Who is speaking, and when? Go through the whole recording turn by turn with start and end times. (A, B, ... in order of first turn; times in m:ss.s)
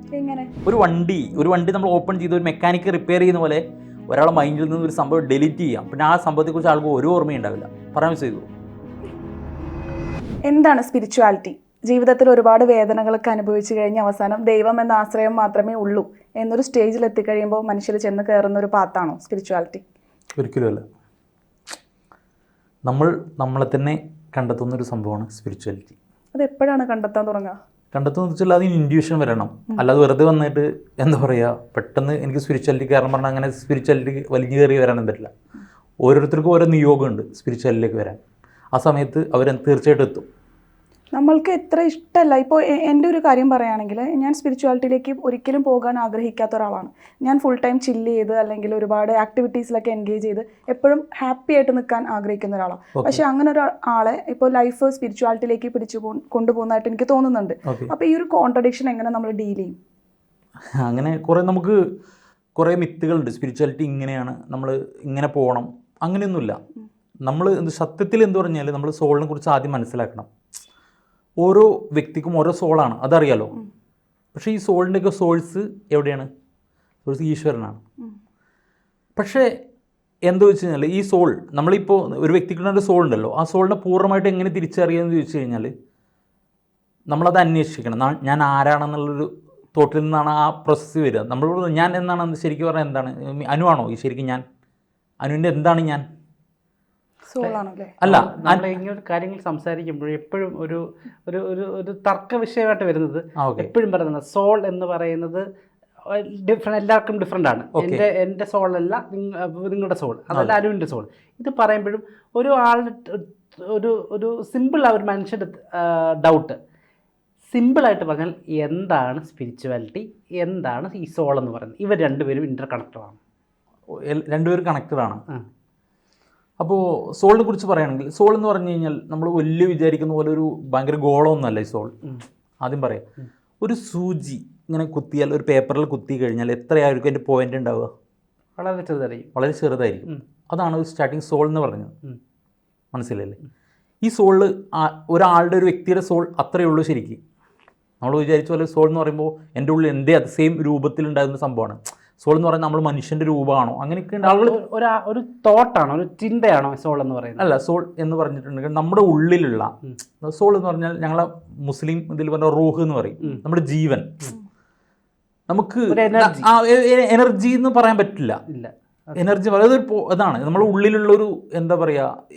0:00.2-0:00.5 A
0:00.6-0:08.5 B
0:10.5-0:19.8 A
0:20.4-0:20.8 B
0:22.9-0:26.0 B
0:26.4-0:27.6 A
0:27.9-0:35.3 B
0:36.0-0:38.2 B
0:38.7-0:40.3 B
0:41.2-0:59.8 A
0:53.0-0:53.2 B
0:57.7-0:57.9 B
1:00.8-1:01.8 B
1:02.6-1:06.6 B
1:07.3-1:10.3 B
1:11.4-1:13.6 B
1:14.3-1:16.3 B
1:17.0-1:17.8 B
1:19.2-1:19.5 B
1:20.2-1:25.7 B
1:27.1-1:34.4 B
1:35.2-1:36.0 B
1:37.3-1:38.0 A
1:37.4-1:45.4 C
1:38.0-1:38.7 B
1:43.4-1:43.7 B
1:46.0-1:56.6 C
1:47.8-1:48.1 B
1:57.5-2:03.2 C
2:03.9-2:05.2 B
2:06.6-2:11.9 B
2:12.6-2:13.0 B
2:13.6-2:17.9 B
2:18.6-2:19.3 C
2:19.3-2:21.9 B
2:22.9-2:23.4 B
2:24.0-2:27.2 B
2:28.0-2:34.6 B
2:34.2-2:37.5 C
2:37.4-2:44.3 B
2:45.5-2:48.4 B
2:45.9-2:46.5 C
2:48.5-2:49.4 C
2:49.2-2:52.1 B